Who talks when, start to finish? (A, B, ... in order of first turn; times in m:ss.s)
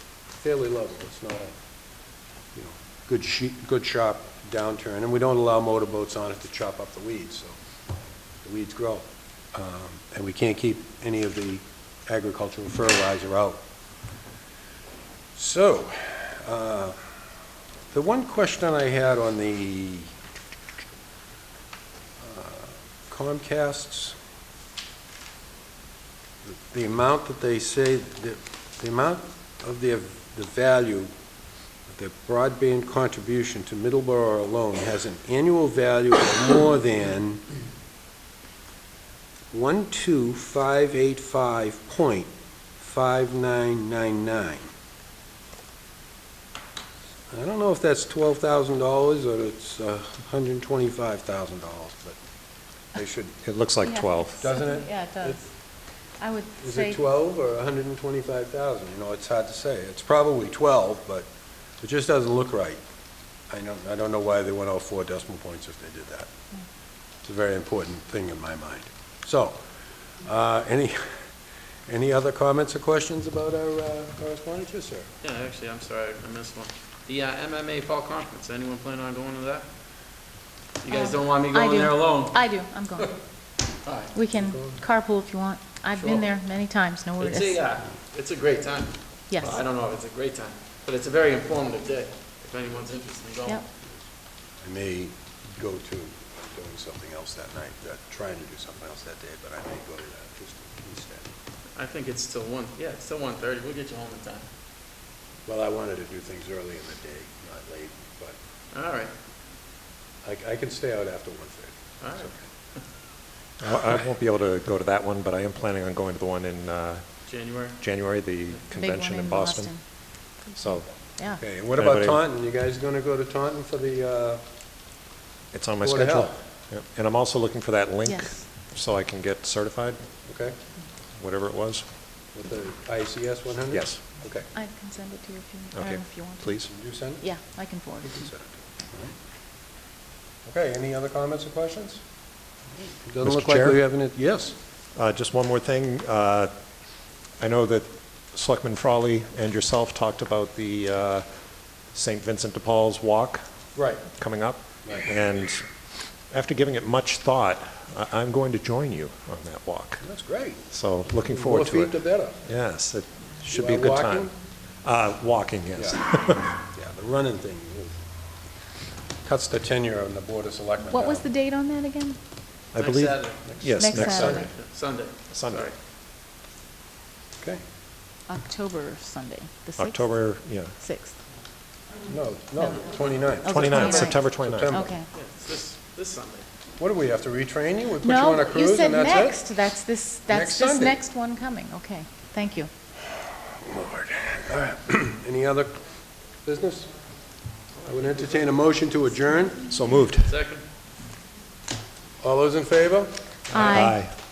0:00.3-0:01.5 A
0:02.5-0:07.6 A
0:08.4-0:13.6 A
0:15.3-0:17.0 A
0:17.9-0:20.1 A
0:22.2-0:24.2 A
0:26.5-0:31.1 A
0:31.9-0:37.4 A
0:39.5-0:44.7 A
0:47.3-0:52.2 A
0:52.9-0:53.4 A
0:53.4-0:54.4 B
0:53.8-0:55.4 C
0:54.4-0:55.4 A
0:56.2-0:57.0 C
0:56.6-1:01.3 A
1:01.8-1:02.8 A
1:03.5-1:06.3 A
1:07.2-1:09.6 A
1:10.2-1:11.2 A
1:11.9-1:15.1 A
1:15.2-1:19.7 D
1:20.8-1:22.4 D
1:20.9-1:23.1 C
1:23.8-1:24.1 D
1:24.1-1:27.7 C
1:24.3-1:24.7 A
1:26.0-1:26.3 D
1:27.2-1:33.7 D
1:29.3-1:29.6 C
1:34.6-1:41.3 A
1:41.7-1:44.5 D
1:45.4-1:48.4 A
1:48.7-1:49.1 D
1:50.2-1:52.4 A
1:52.0-1:52.3 D
1:53.6-1:57.0 B
1:57.3-1:57.8 D
1:57.8-1:59.7 B
1:58.7-2:01.4 C
2:00.5-2:00.9 B
2:01.4-2:04.4 A
2:01.7-2:02.2 B
2:05.5-2:10.0 B
2:05.8-2:06.3 A
2:08.0-2:08.4 C
2:10.2-2:10.6 A
2:11.1-2:11.8 B
2:12.3-2:14.5 A
2:13.7-2:14.0 B
2:14.5-2:16.6 C
2:15.7-2:16.7 B
2:16.7-2:17.2 A
2:17.2-2:18.3 C
2:18.0-2:19.1 A
2:20.4-2:22.0 A
2:22.8-2:24.5 A
2:23.2-2:23.8 B
2:24.9-2:26.5 B
2:27.4-2:31.2 B
2:31.9-2:33.4 B
2:33.7-2:34.0 A
2:34.1-2:35.7 B
2:36.3-2:40.0 B
2:40.0-2:40.6 A
2:40.7-2:46.6 B
2:41.2-2:42.4 A
2:43.5-2:44.3 A
2:45.8-2:48.0 A
2:49.2-2:51.3 A
2:50.9-2:52.2 C
2:52.7-2:54.5 B
2:52.8-2:53.4 D
2:53.5-2:54.5 A
2:53.8-2:54.5 C
2:54.2-2:55.7 D
2:55.3-2:55.7 B
2:58.3-3:00.1 C
2:59.8-3:00.8 B
3:00.8-3:01.2 C
3:02.0-3:05.0 A
3:02.6-3:02.8 C
3:03.4-3:05.1 C
3:03.5-3:04.8 B
3:05.1-3:06.4 D
3:06.8-3:09.5 A
3:08.0-3:12.7 C
3:10.3-3:11.0 A
3:13.5-3:15.8 A
3:16.4-3:16.9 A
3:17.8-3:19.6 A
3:19.7-3:20.3 B
3:20.2-3:20.6 D
3:22.2-3:23.1 A
3:23.5-3:24.1 B
3:23.5-3:24.0 C